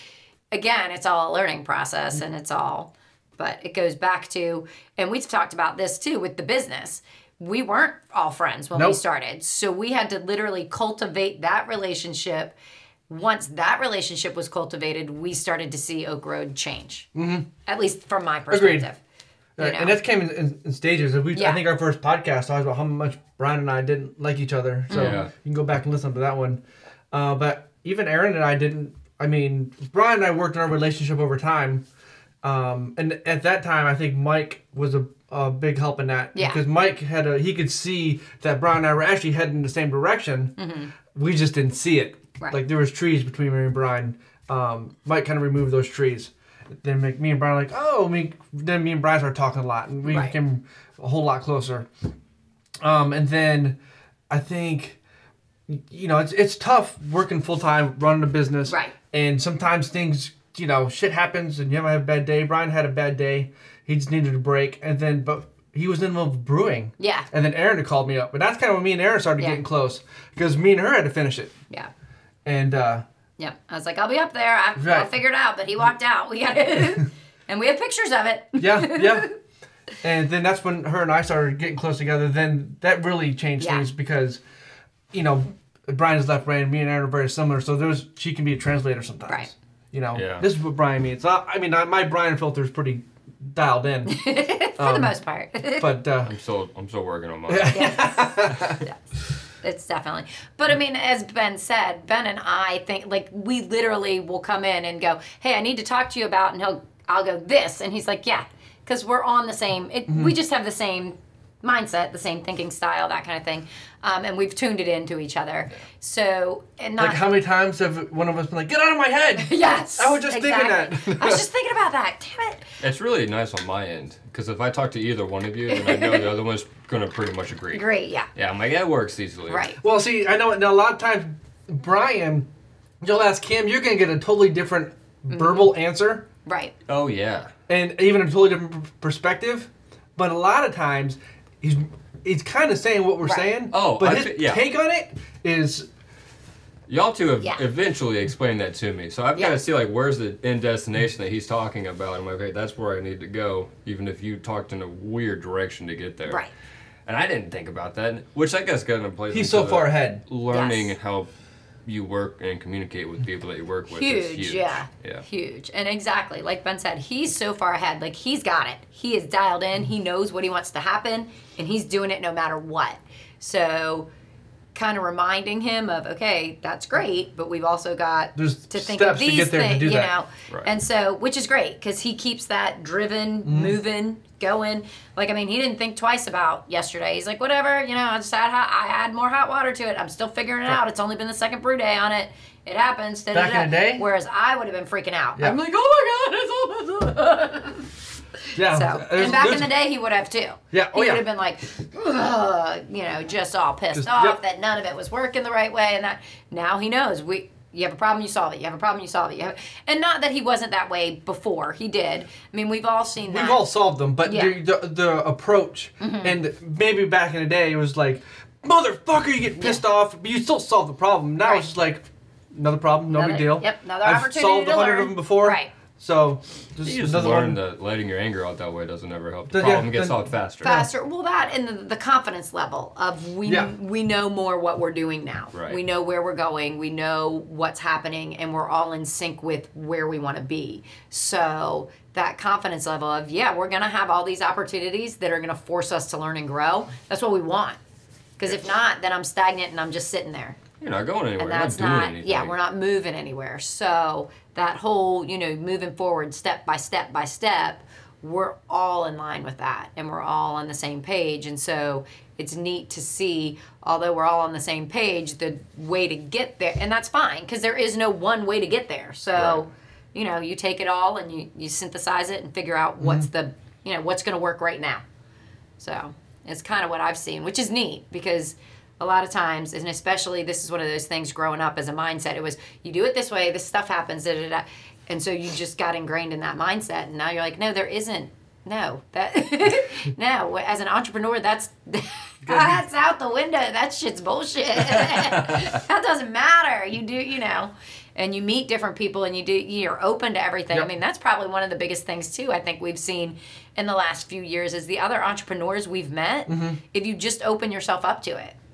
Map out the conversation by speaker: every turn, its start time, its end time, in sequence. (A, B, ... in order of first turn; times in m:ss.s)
0:00.5-0:12.5 A
0:08.7-0:09.0 B
0:13.1-0:17.1 A
0:17.1-0:17.5 B
0:17.6-0:19.0 A
0:18.5-0:18.9 B
0:19.6-0:26.6 B
0:19.6-0:20.0 A
0:21.3-0:21.6 A
0:24.9-0:25.2 A
0:24.9-0:25.3 C
0:27.1-0:31.8 B
0:32.4-0:40.5 B
0:36.3-0:36.6 A
0:40.6-0:40.9 A
0:41.1-0:51.9 B
0:50.0-0:50.3 A
0:52.8-0:53.8 B
0:54.3-0:55.0 B
0:55.7-1:11.5 B
0:58.7-0:58.9 A
1:07.0-1:07.3 A
1:12.4-1:13.0 B
1:13.4-1:19.3 A
1:14.8-1:15.1 B
1:18.6-1:19.3 B
1:20.0-1:24.4 B
1:23.6-1:23.8 A
1:25.1-1:35.2 B
1:30.1-1:30.4 C
1:34.1-1:35.9 A
1:35.8-1:36.3 B
1:36.2-1:38.0 C
1:37.5-1:38.8 B
1:37.7-1:39.0 A
1:39.6-1:57.2 A
1:50.1-1:50.3 B
1:57.0-2:01.4 B
1:59.4-2:02.6 A
2:02.8-2:09.7 C
2:05.7-2:06.3 A
2:07.7-2:08.3 A
2:09.5-2:09.8 A
2:09.8-2:12.5 B
2:13.0-2:16.2 B
2:15.3-2:15.7 A
2:16.4-2:16.7 A
2:16.9-2:17.5 C
2:17.7-2:25.9 B
2:23.2-2:23.5 A
2:23.7-2:24.6 C
2:26.9-2:36.4 C
2:37.0-2:41.3 C
2:39.3-2:40.2 B
2:40.5-2:40.9 A
2:41.8-2:45.2 C
2:43.9-2:54.1 A
2:54.7-3:17.9 A
2:58.3-3:00.1 B
3:03.4-3:03.8 B
3:13.3-3:14.0 B
3:18.5-3:33.7 A
3:18.6-3:19.7 B
3:20.7-3:21.2 B
3:23.9-3:24.4 B
3:33.2-3:47.6 B
3:34.2-3:34.6 A
3:36.0-3:36.4 A
3:43.1-3:45.7 A
3:46.8-3:50.9 C
3:49.5-3:50.2 B
3:50.6-4:07.8 A
3:53.4-3:53.7 B
3:55.5-3:55.8 C
4:08.4-4:10.6 A
4:10.8-4:12.5 C
4:11.4-4:35.0 A
4:29.4-4:29.6 C
4:35.8-5:08.5 A
4:52.4-4:52.8 B
4:55.1-4:55.6 C
5:06.5-5:06.8 B